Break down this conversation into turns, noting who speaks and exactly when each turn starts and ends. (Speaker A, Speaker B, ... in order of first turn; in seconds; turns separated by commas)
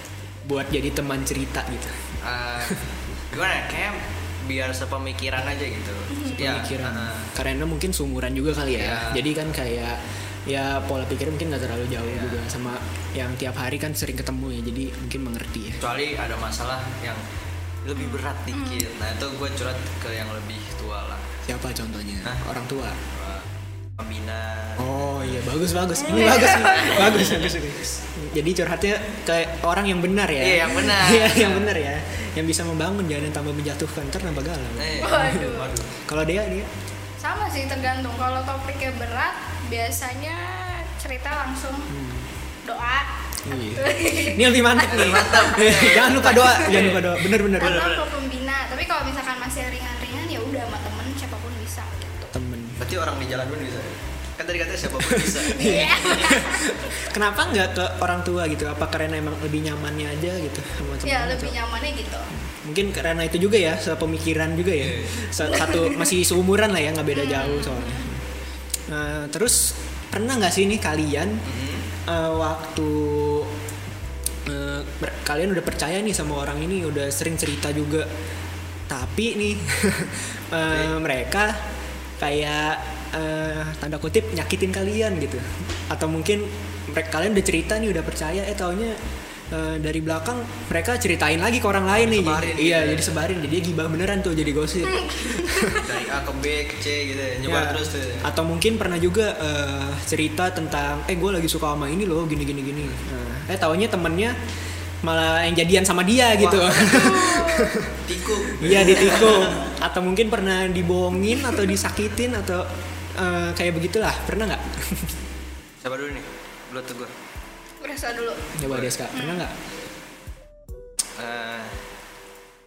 Speaker A: 0.5-2.0, Speaker B: 2.2-7.3, Speaker C: 6.1-6.4, Speaker A: 6.3-15.8, Speaker B: 8.7-9.3, Speaker B: 12.1-12.4, Speaker B: 15.8-17.2, Speaker B: 17.8-21.3, Speaker C: 18.0-18.9, Speaker A: 21.5-23.0, Speaker B: 23.1-25.0, Speaker A: 24.8-36.7, Speaker C: 26.0-27.1, Speaker B: 26.1-27.6, Speaker B: 30.4-31.7, Speaker B: 34.8-35.9, Speaker C: 35.0-35.7, Speaker C: 37.2-41.9, Speaker A: 41.9-42.3, Speaker C: 42.6-46.8, Speaker A: 43.5-47.9, Speaker B: 44.9-48.0, Speaker C: 47.6-52.3, Speaker A: 52.3-52.8, Speaker B: 52.8-56.4, Speaker A: 55.0-61.6, Speaker C: 55.5-56.7, Speaker C: 61.0-62.3, Speaker A: 62.4-68.2, Speaker B: 64.8-65.3, Speaker C: 65.4-66.1, Speaker C: 67.1-68.1, Speaker A: 68.9-71.4, Speaker B: 71.5-71.9, Speaker A: 72.1-73.5, Speaker A: 74.5-78.1, Speaker A: 78.9-81.6, Speaker B: 80.6-81.0, Speaker A: 82.2-89.0, Speaker A: 89.5-95.9, Speaker B: 91.9-93.3, Speaker C: 94.8-95.9, Speaker B: 95.7-98.3, Speaker A: 97.5-104.4, Speaker A: 105.0-108.0, Speaker B: 106.4-109.8, Speaker C: 106.9-107.7, Speaker A: 108.5-112.7, Speaker A: 113.2-115.1, Speaker B: 115.8-117.1, Speaker C: 117.8-118.5, Speaker A: 118.6-119.5, Speaker B: 118.6-119.0, Speaker C: 119.1-119.4, Speaker B: 121.2-121.8